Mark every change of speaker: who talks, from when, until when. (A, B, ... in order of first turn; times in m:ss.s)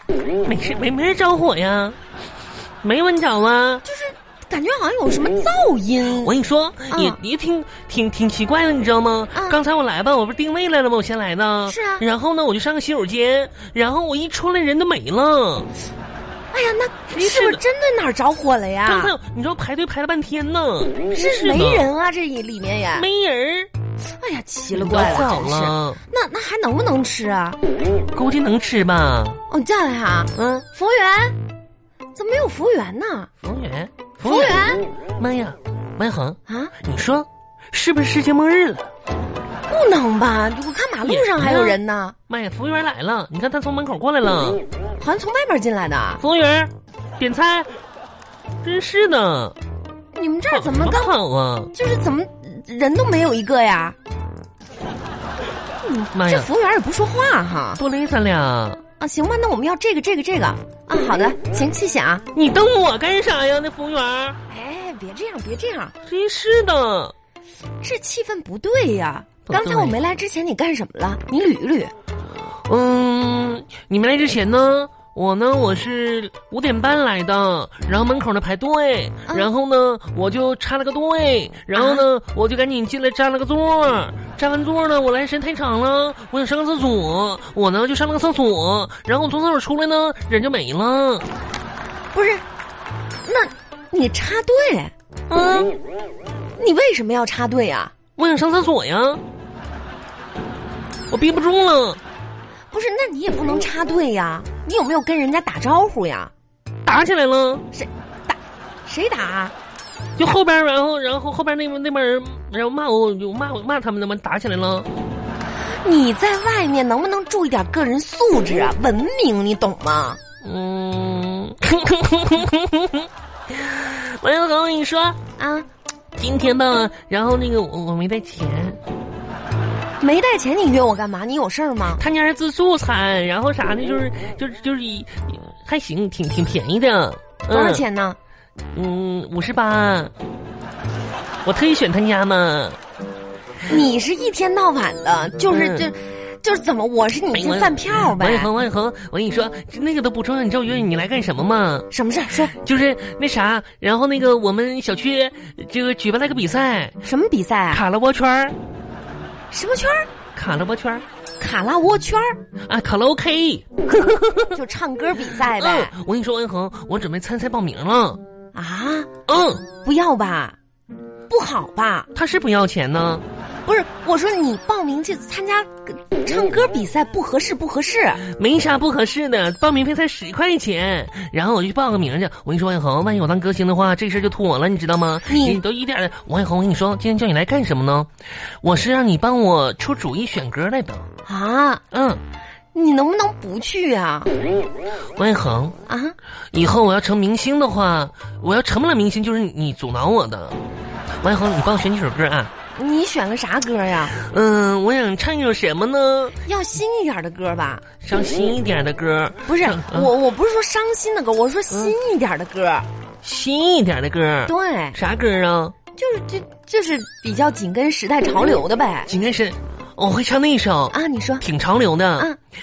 0:00.4-0:02.0 A
0:02.8-0:03.8 A
0:03.8-0:06.3 B
0:06.2-0:15.7 A
0:06.9-0:07.2 B
0:09.3-0:09.6 B
0:11.7-0:12.0 B
0:16.5-0:19.1 B
0:17.1-0:17.6 A
0:18.8-0:21.9 A
0:21.1-0:23.1 B
0:22.9-0:23.7 A
0:24.2-0:27.6 B
0:24.7-0:26.0 A
0:28.1-0:29.4 A
0:29.5-0:31.4 B
0:30.3-0:30.7 A
0:32.1-0:33.3 B
0:33.4-0:38.9 A
0:34.2-0:34.8 B
0:36.5-0:36.7 B
0:39.7-0:42.2 B
0:41.0-0:44.6 A
0:45.0-0:46.2 B
0:46.2-0:47.7 A
0:48.6-0:49.6 A
0:50.1-0:51.1 B
0:50.5-0:51.7 A
0:51.7-0:54.0 B
0:55.8-0:57.8 B
0:56.1-0:56.5 A
0:57.8-0:58.8 A
0:59.0-1:02.2 B
1:02.3-1:04.4 A
1:04.5-1:05.9 B
1:06.0-1:07.1 A
1:07.8-1:11.9 B
1:09.5-1:10.0 A
1:12.7-1:31.3 A
1:21.7-1:22.0 B
1:32.1-1:32.4 B
1:33.2-1:34.9 B
1:35.3-1:35.7 A
1:36.6-1:37.9 B
1:38.2-1:39.2 A
1:41.1-1:42.0 A
1:42.7-1:46.3 B
1:46.8-1:47.6 A
1:47.7-1:49.5 B
1:50.2-1:54.9 A
1:55.8-2:00.2 B
2:00.4-2:05.2 A
2:05.4-2:05.7 B
2:06.2-2:08.8 A
2:10.0-2:12.0 B
2:12.0-2:17.8 A
2:17.5-2:18.2 B
2:18.7-2:20.1 A
2:21.4-2:22.8 A
2:23.7-2:28.5 B
2:25.5-2:25.9 A
2:27.3-2:31.9 A
2:31.9-2:32.6 B
2:32.6-2:37.0 A
2:37.0-2:37.8 B
2:37.7-2:38.6 A
2:39.5-2:40.1 B
2:40.3-2:41.0 A
2:41.4-2:42.4 B
2:42.7-2:44.6 A
2:44.5-2:45.9 B
2:45.3-2:48.2 A
2:48.5-2:49.1 B
2:49.3-2:49.7 A
2:49.8-2:50.6 B
2:51.3-2:52.1 B
2:52.1-2:53.2 A
2:53.6-2:58.2 B
2:58.2-3:08.1 A
3:05.3-3:05.6 B
3:08.6-3:11.1 A
3:11.2-3:11.8 B
3:11.9-3:12.2 A
3:12.7-3:14.3 B
3:15.2-3:15.7 A
3:15.8-3:16.2 B
3:16.5-3:20.6 A
3:21.2-3:22.5 A
3:22.8-3:24.1 B
3:24.1-3:26.4 A
3:26.4-3:27.8 B
3:28.0-3:30.1 A
3:29.4-3:32.8 B
3:31.7-3:32.0 A
3:33.2-3:35.7 A
3:34.5-3:35.0 B
3:35.9-3:39.1 B
3:39.1-3:42.3 A
3:40.9-3:41.4 B